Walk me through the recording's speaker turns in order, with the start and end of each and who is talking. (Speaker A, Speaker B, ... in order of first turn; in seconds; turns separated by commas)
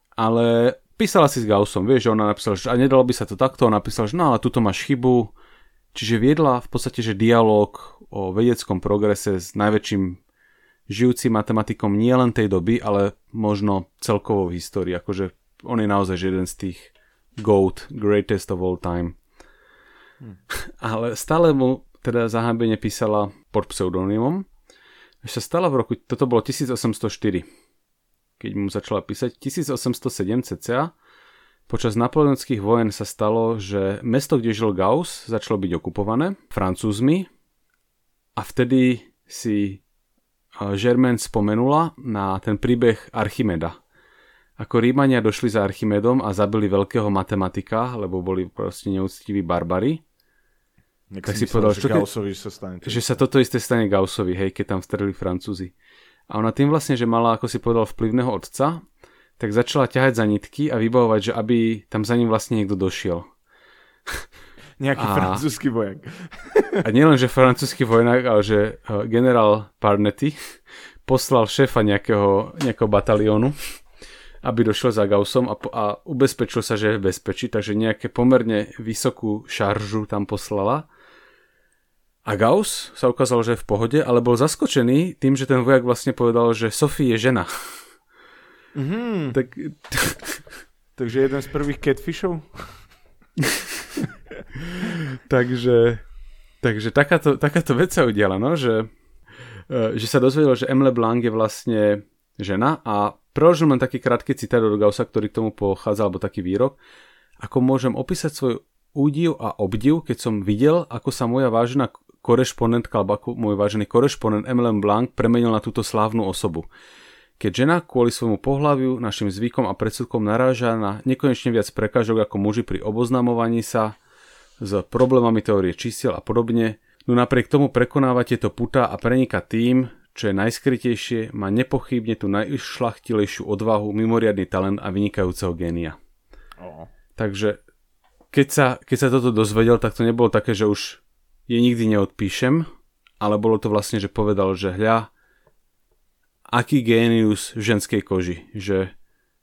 Speaker A: 0.2-5.3, Speaker A: 5.9-10.2, Speaker A: 10.9-19.2, Speaker A: 20.5-24.4, Speaker A: 25.2-27.4, Speaker A: 28.4-30.9, Speaker A: 31.7-37.3, Speaker A: 38.4-39.8, Speaker A: 40.6-43.8, Speaker A: 44.6-50.0, Speaker B: 51.1-53.2, Speaker A: 51.2-52.1, Speaker A: 52.8-55.7, Speaker A: 56.3-58.8, Speaker A: 59.4-63.3, Speaker B: 64.8-66.8, Speaker A: 65.0-65.4, Speaker A: 66.8-70.4, Speaker A: 71.0-73.6, Speaker A: 74.4-80.8, Speaker A: 82.2-87.5, Speaker B: 88.7-89.4, Speaker A: 89.3-90.4, Speaker B: 91.0-92.8, Speaker A: 94.7-96.0, Speaker A: 96.6-98.9, Speaker A: 99.7-106.8, Speaker A: 107.4-116.7, Speaker A: 117.4-123.9, Speaker A: 124.6-136.0, Speaker B: 136.6-136.9, Speaker A: 137.2-137.6, Speaker A: 138.3-142.7, Speaker A: 143.2-145.1, Speaker A: 146.5-148.9